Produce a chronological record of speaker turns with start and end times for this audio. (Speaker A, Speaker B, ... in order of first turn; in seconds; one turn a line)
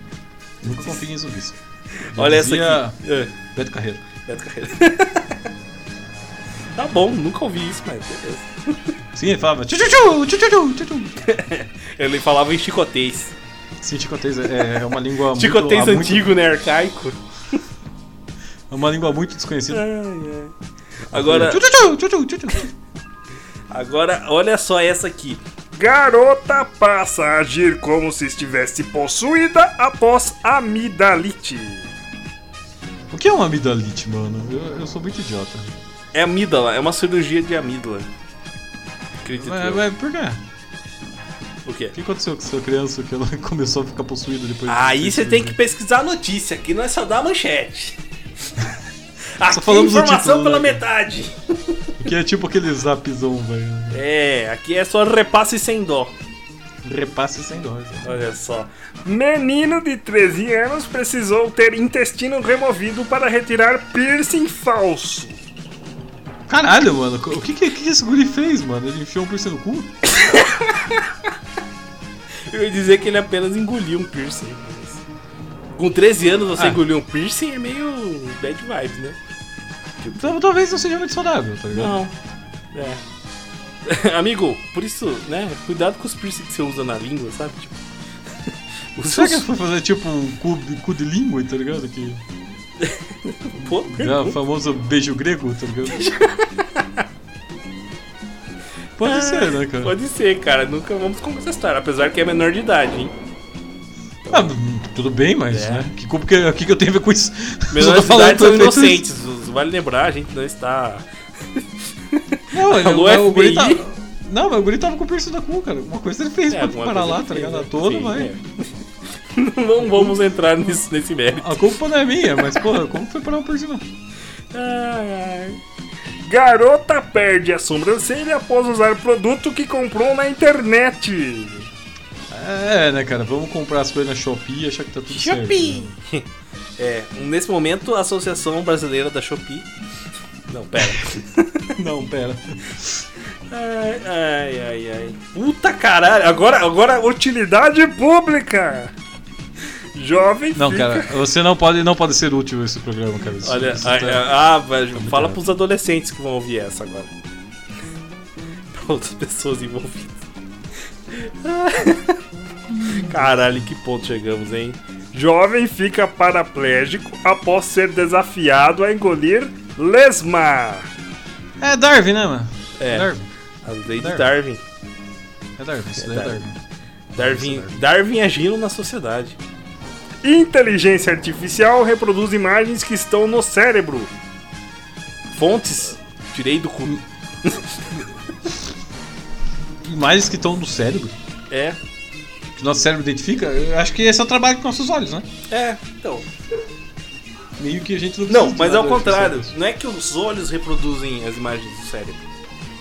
Speaker A: 0.6-1.6
Speaker B: 0.7-1.0
Speaker B: 1.9-5.4
Speaker A: 2.1-3.0
Speaker A: 3.5-4.0
Speaker B: 6.7-8.9
Speaker A: 9.1-11.3
Speaker B: 11.2-13.3
Speaker A: 13.8-16.3
Speaker B: 15.3-17.6
Speaker A: 18.7-19.8
Speaker B: 19.7-20.5
Speaker B: 21.1-21.6
Speaker A: 21.1-22.7
Speaker B: 23.7-25.4
Speaker C: 25.7-31.9
Speaker A: 33.1-35.7
Speaker B: 36.1-38.1
Speaker B: 39.2-39.8
Speaker A: 39.4-40.4
Speaker B: 41.6-41.9
Speaker A: 41.9-45.5
Speaker B: 44.7-48.0
Speaker B: 49.4-51.9
Speaker A: 49.5-50.8
Speaker A: 52.0-54.0
Speaker B: 53.9-56.1
Speaker A: 56.8-58.2
Speaker B: 58.0-58.7
Speaker C: 59.0-65.4
Speaker A: 66.5-69.9
Speaker B: 70.1-71.0
Speaker B: 72.5-75.0
Speaker B: 75.8-79.2
Speaker B: 80.0-80.3
Speaker A: 80.2-82.0
Speaker B: 81.7-82.1
Speaker B: 82.7-83.0
Speaker B: 83.8-87.8
Speaker B: 88.9-89.5
Speaker A: 89.1-92.2
Speaker B: 92.8-94.3
Speaker A: 93.8-96.1
Speaker B: 95.8-97.0
Speaker A: 99.0-99.9
Speaker B: 99.0-103.1
Speaker B: 104.2-104.5
Speaker A: 104.3-109.0
Speaker B: 105.5-105.9
Speaker B: 107.7-111.0
Speaker B: 111.6-113.8
Speaker A: 112.5-118.3
Speaker B: 116.5-118.4
Speaker B: 119.3-121.6
Speaker A: 119.8-120.2
Speaker A: 121.3-123.8
Speaker B: 124.5-125.6
Speaker C: 126.3-131.7
Speaker A: 132.3-135.9
Speaker B: 135.1-136.2
Speaker B: 136.8-139.7
Speaker B: 140.5-141.8
Speaker A: 141.8-142.8
Speaker B: 143.5-147.2
Speaker C: 147.2-148.9
Speaker C: 149.9-150.9
Speaker A: 150.5-154.3
Speaker B: 153.4-157.1
Speaker A: 154.9-155.4
Speaker B: 158.7-160.2
Speaker B: 161.1-162.2
Speaker A: 162.7-163.2
Speaker B: 162.8-164.8
Speaker C: 165.1-170.9
Speaker A: 171.6-173.3
Speaker B: 172.8-173.1
Speaker B: 173.6-174.6
Speaker A: 174.0-174.3
Speaker A: 175.6-176.6
Speaker B: 176.0-176.4
Speaker B: 177.1-179.4
Speaker A: 177.2-177.8
Speaker C: 180.2-184.1
Speaker B: 185.3-188.1
Speaker A: 189.8-191.1
Speaker B: 191.5-191.8
Speaker A: 192.6-195.3
Speaker B: 195.5-196.3
Speaker A: 197.6-199.5
Speaker B: 198.3-202.2